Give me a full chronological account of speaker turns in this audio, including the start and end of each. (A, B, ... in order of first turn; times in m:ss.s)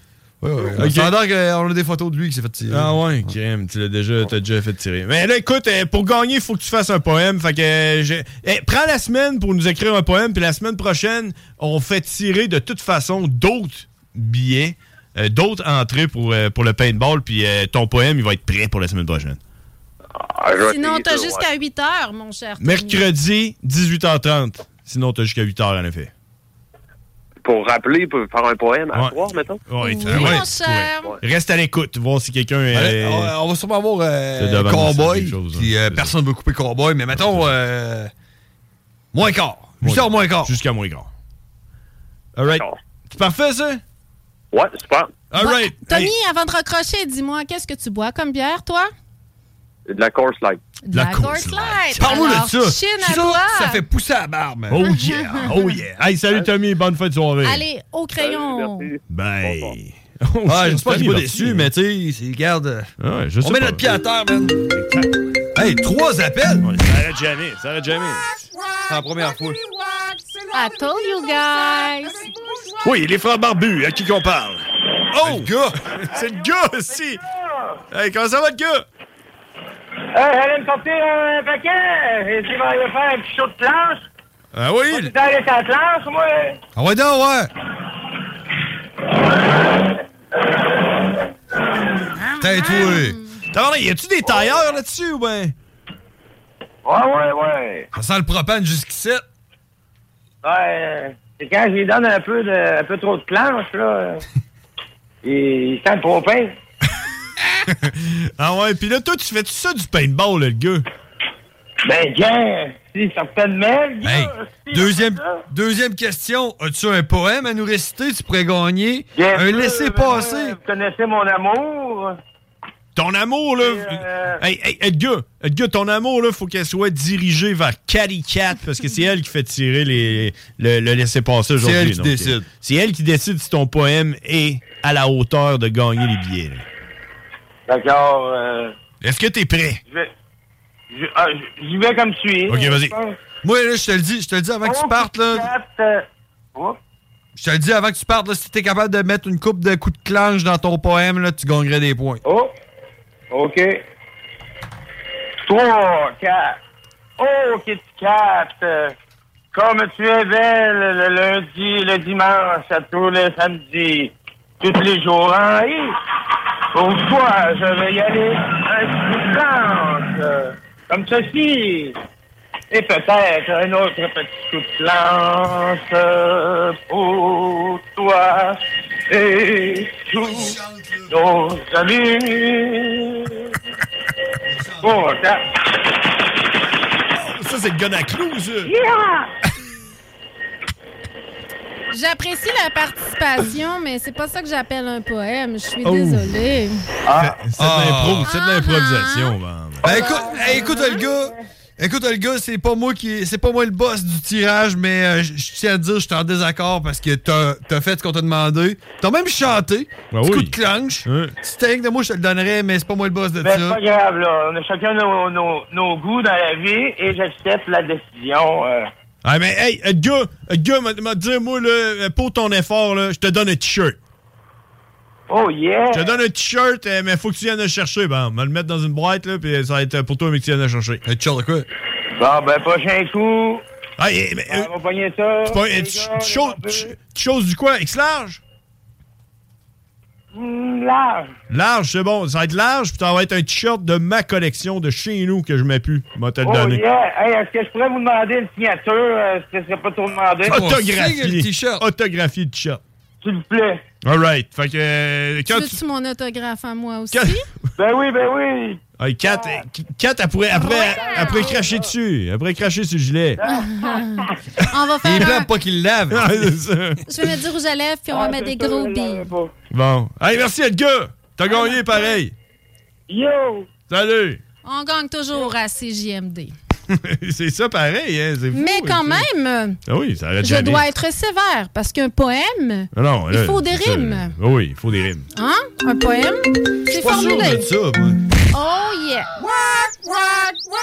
0:00.4-0:03.0 A
0:00.8-0:01.1 B
0:02.7-0:19.4 B
0:20.2-0:21.4 C
0:20.6-0:23.0 D
0:22.6-0:26.1 B
0:27.4-0:29.6 C
0:28.9-0:33.3 B
0:29.8-0:31.2 D
0:30.1-0:30.5 A
0:32.7-0:38.1 A
0:34.4-0:36.1 B
0:37.1-0:37.5 B
0:39.1-0:40.6 A
0:39.8-0:41.1 B
0:42.4-0:43.8 B
0:42.5-0:42.8 C
0:44.5-0:45.2 C
0:45.3-0:46.1 B
0:45.4-0:48.9 D
0:49.9-0:50.6 C
0:50.8-0:53.8 D
0:50.9-0:52.2 B
0:52.0-0:55.0 A
0:54.7-0:57.6 B
0:54.9-0:55.8 D
0:57.4-0:58.9 D
0:58.2-0:59.8 C
0:59.1-1:01.7 B
1:00.5-1:04.6 A
1:03.0-1:04.0 B
1:04.7-1:05.3 B
1:05.6-1:06.7 A
1:06.6-1:08.5 B
1:08.9-1:09.6 A
1:10.5-1:12.3 D
1:12.8-1:14.7 B
1:15.1-1:15.8 A
1:15.2-1:17.2 B
1:16.2-1:16.4 E
1:17.2-1:17.8 E
1:17.9-1:18.8 B
1:20.1-1:24.0 E
1:24.5-1:25.1 B
1:24.9-1:26.6 E
1:26.8-1:27.5 A
1:32.3-1:33.4 D
1:32.4-1:33.2 A
1:33.5-1:35.6 B
1:36.8-1:37.9 E
1:37.9-1:39.2 A
1:40.4-1:44.2 E
1:45.2-1:46.6 E
1:47.7-1:50.9 B
1:51.8-1:55.4 E
1:54.0-2:00.6 A
1:59.2-2:02.2 E
2:03.0-2:16.7 B
2:03.6-2:04.4 E
2:11.6-2:12.5 A
2:17.7-2:18.7 E
2:19.0-2:19.8 B
2:20.9-2:23.2 E
2:22.5-2:23.0 B
2:23.4-2:25.5 A
2:24.6-2:26.8 E
2:27.4-2:32.2 A
2:32.2-2:32.5 E
2:33.3-2:33.8 E
2:35.4-2:36.6 E
2:37.2-2:38.9 E
2:39.5-2:46.0 E
2:46.7-2:52.0 E
2:52.7-3:00.6 E
3:00.2-3:01.1 A
3:01.1-3:03.5 E
3:04.5-3:05.1 A
3:04.8-3:05.5 E
3:07.1-3:08.7 B
3:08.7-3:09.3 E
3:11.9-3:16.8 D
3:15.8-3:16.3 B
3:17.1-3:17.4 E
3:17.2-3:20.1 B
3:17.6-3:18.3 A
3:18.2-3:19.4 D
3:19.8-3:33.8 A
3:19.9-3:21.3 E
3:20.2-3:21.0 D
3:30.1-3:31.4 B
3:33.4-3:38.9 E
3:39.2-3:44.0 B
3:45.3-3:46.2 E
3:45.9-3:51.0 B
3:51.0-3:51.7 A
3:52.2-3:53.6 E
3:54.0-3:54.7 B
3:54.5-3:57.0 E
3:55.5-3:58.4 B
4:00.3-4:01.3 E
4:01.5-4:06.8 B
4:06.4-4:10.7 E
4:10.4-4:11.8 A
4:10.4-4:12.8 B
4:13.2-4:13.8 E
4:14.0-4:15.8 B
4:15.5-4:17.4 D
4:17.1-4:17.4 B
4:17.8-4:19.6 E
4:19.0-4:23.4 B
4:20.5-4:21.6 D
4:20.8-4:21.8 E
4:23.4-4:24.3 E
4:23.5-4:25.5 D
4:25.0-4:26.6 A
4:26.1-4:27.0 B
4:27.1-4:29.3 D
4:28.1-4:29.5 E
4:29.7-4:32.3 B
4:31.5-4:32.2 D
4:33.1-4:33.7 E
4:33.9-4:34.4 B
4:34.6-4:36.5 D
4:36.9-4:39.3 B
4:38.5-4:39.8 D
4:39.9-4:40.8 B
4:40.4-4:44.3 D
4:42.9-4:45.3 B
4:45.3-4:47.7 D
4:46.9-4:48.2 A
4:48.5-4:49.4 D